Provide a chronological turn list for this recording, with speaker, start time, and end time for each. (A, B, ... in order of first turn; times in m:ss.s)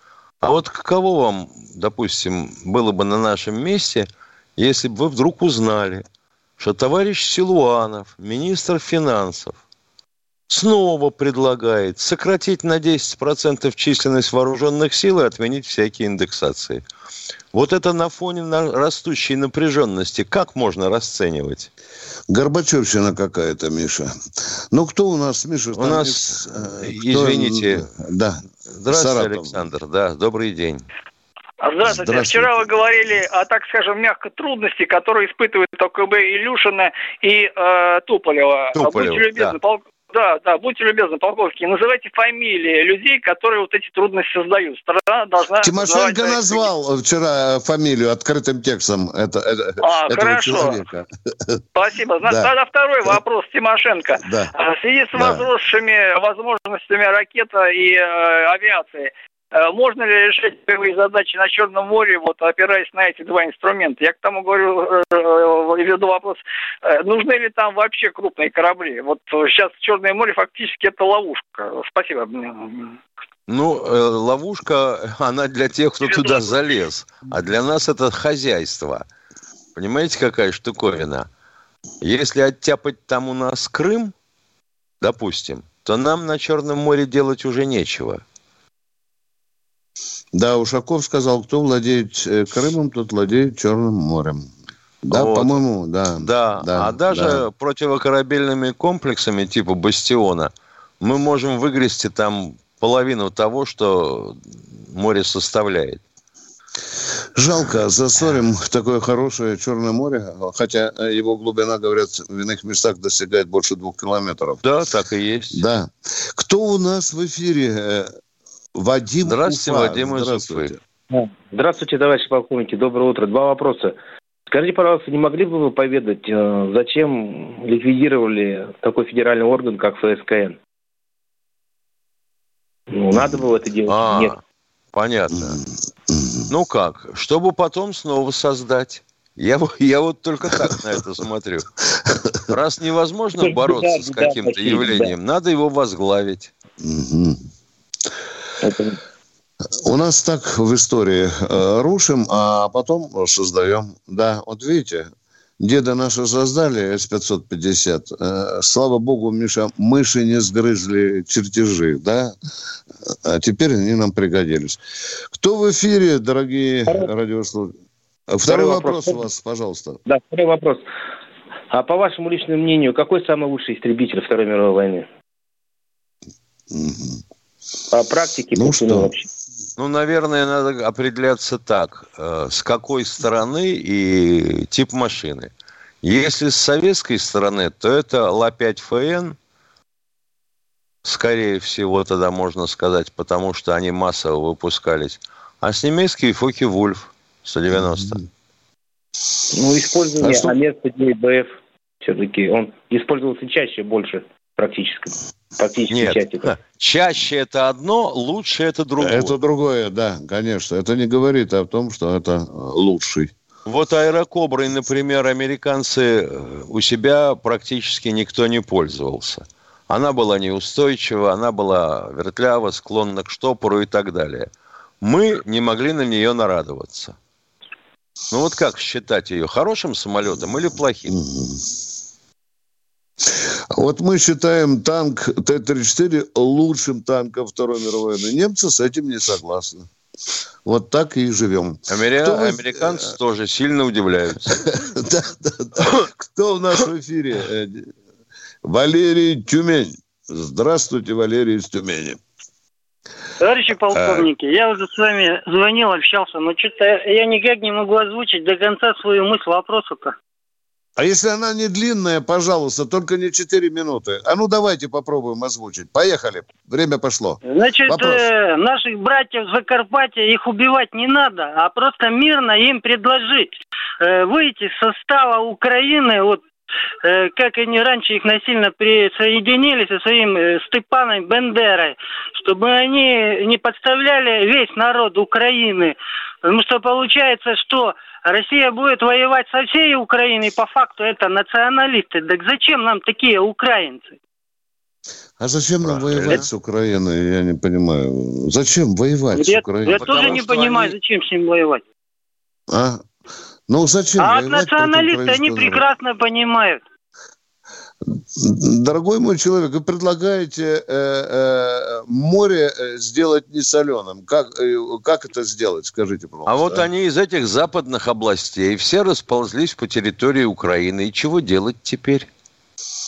0:00.4-0:06.0 A
0:06.6-0:09.6 A
0:10.5-0:16.8 A
0:17.5-0:21.7 A
0:22.3-0:24.1 B
0:24.7-0:29.6 B
0:25.8-0:27.9 A
0:28.8-0:30.8 A
0:31.6-0:46.7 C
0:31.9-0:32.5 B
0:38.8-0:39.6 A
0:45.6-0:51.6 B
0:49.8-0:50.8 C
0:51.7-1:13.0 C
0:52.2-0:52.5 B
0:54.2-0:54.5 B
0:55.1-0:55.5 B
1:13.5-1:19.0 A
1:16.0-1:16.6 C
1:19.8-1:21.3 A
1:22.0-1:24.1 A
1:25.0-1:28.2 A
1:30.3-1:34.5 B
1:35.0-1:37.4 B
1:35.1-1:35.6 A
1:36.2-1:46.0 A
1:47.4-1:54.6 B
1:54.6-1:55.6 A
1:55.5-1:58.1 B
1:58.7-2:00.8 B
1:59.2-2:00.7 A
2:01.1-2:04.0 D
2:04.5-2:10.6 D
2:12.9-2:14.4 D
2:13.1-2:13.4 B
2:13.9-2:14.4 A
2:14.9-2:15.6 A
2:15.3-2:16.5 B
2:16.5-2:21.7 A
2:22.5-2:26.5 A
2:23.4-2:25.2 D
2:26.8-2:27.4 B
2:28.6-2:29.0 D
2:29.8-2:42.4 B
2:43.1-2:44.8 B
2:45.3-2:47.7 B
2:48.3-2:50.0 B
2:48.4-2:49.2 D
2:50.0-2:50.8 D
2:51.7-2:55.1 D
2:56.7-2:57.2 B
2:57.9-2:59.3 D
2:58.5-2:59.1 B
2:59.8-3:05.5 A
3:06.0-3:09.4 A
3:11.0-3:18.2 A
3:17.7-3:18.2 B
3:19.5-3:26.5 D
3:20.2-3:20.6 B
3:25.9-3:29.3 A
3:29.0-3:33.3 B
3:33.6-3:44.5 A
3:45.0-3:47.2 A
3:48.3-3:51.2 A
3:51.1-3:51.6 B
3:53.7-3:59.9 B
4:00.6-4:03.1 B
4:01.9-4:04.6 A
4:04.7-4:07.9 B
4:08.6-4:12.2 B
4:13.4-4:20.1 E
4:13.9-4:14.3 B
4:21.0-4:28.2 B
4:27.4-4:36.4 E
4:37.0-4:54.2 E
4:55.4-5:00.6 B
4:55.8-4:56.4 A
4:59.3-5:01.8 E
5:00.0-5:00.6 A
5:02.7-5:03.0 B
5:03.7-5:05.8 B
5:04.2-5:06.8 E
5:08.0-5:16.9 B
5:16.4-5:22.3 A